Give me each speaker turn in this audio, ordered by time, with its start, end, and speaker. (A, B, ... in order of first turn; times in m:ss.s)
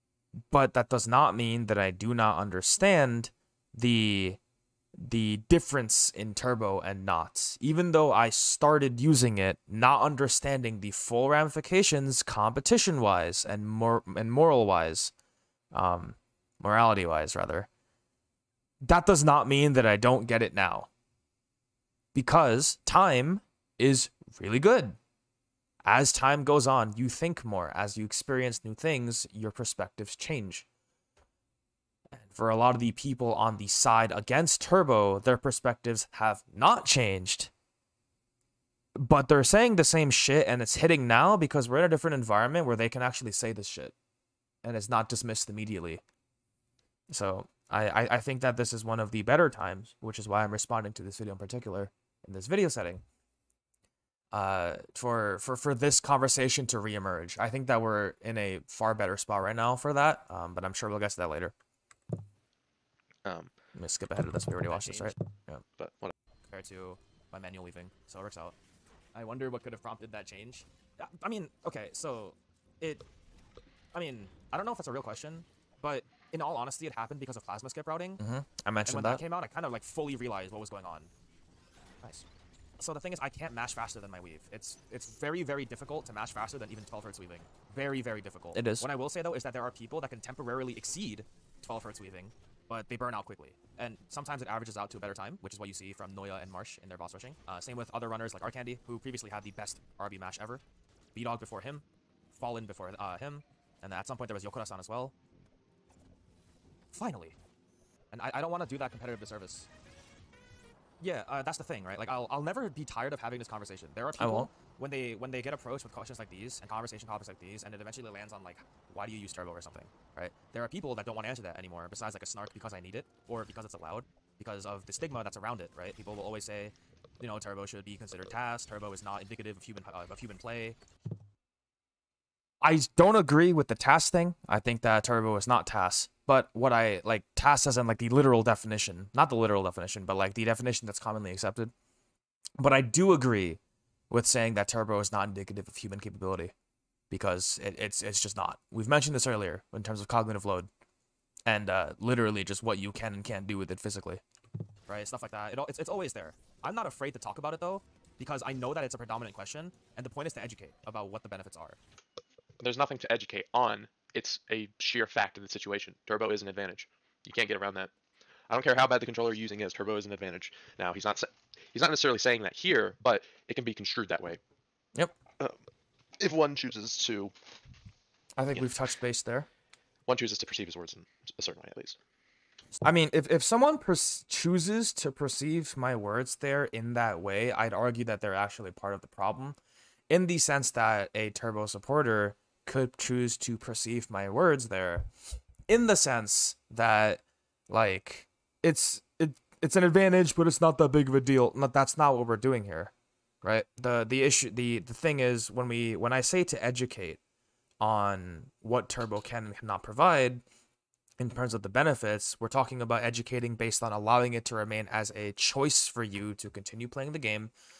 0:00.5-0:04.4 A
0:05.0-0:15.1 A
0:15.7-0:17.7 A
0:18.8-0:20.9 A
0:22.1-0:25.0 A
0:25.8-0:30.7 A
0:32.1-0:37.5 A
0:38.9-0:43.9 A
0:44.6-0:46.0 A
0:47.1-0:53.0 A
0:54.3-1:01.5 A
1:03.2-1:03.5 B
1:03.7-1:05.6 A
1:04.7-1:05.1 C
1:05.8-1:06.1 B
1:06.5-1:08.5 C
1:09.1-1:13.0 C
1:13.9-1:18.2 C
1:18.2-1:19.2 A
1:18.8-1:21.1 C
1:22.8-1:40.6 C
1:28.5-1:28.9 A
1:41.1-1:45.1 C
1:46.9-1:47.4 C
1:48.1-1:49.7 C
1:51.0-2:10.8 C
1:54.2-1:54.5 A
2:12.6-2:21.7 A
2:22.6-2:26.5 A
2:27.1-2:30.7 A
2:31.4-2:34.2 A
2:34.9-2:41.8 C
2:42.6-2:47.9 B
2:48.5-2:54.4 B
2:56.2-2:57.3 B
2:58.4-2:59.5 A
3:00.1-3:02.0 B
3:02.8-3:09.6 A
3:10.1-3:15.1 A
3:15.7-3:27.2 A
3:27.8-3:30.4 A
3:31.2-3:37.5 A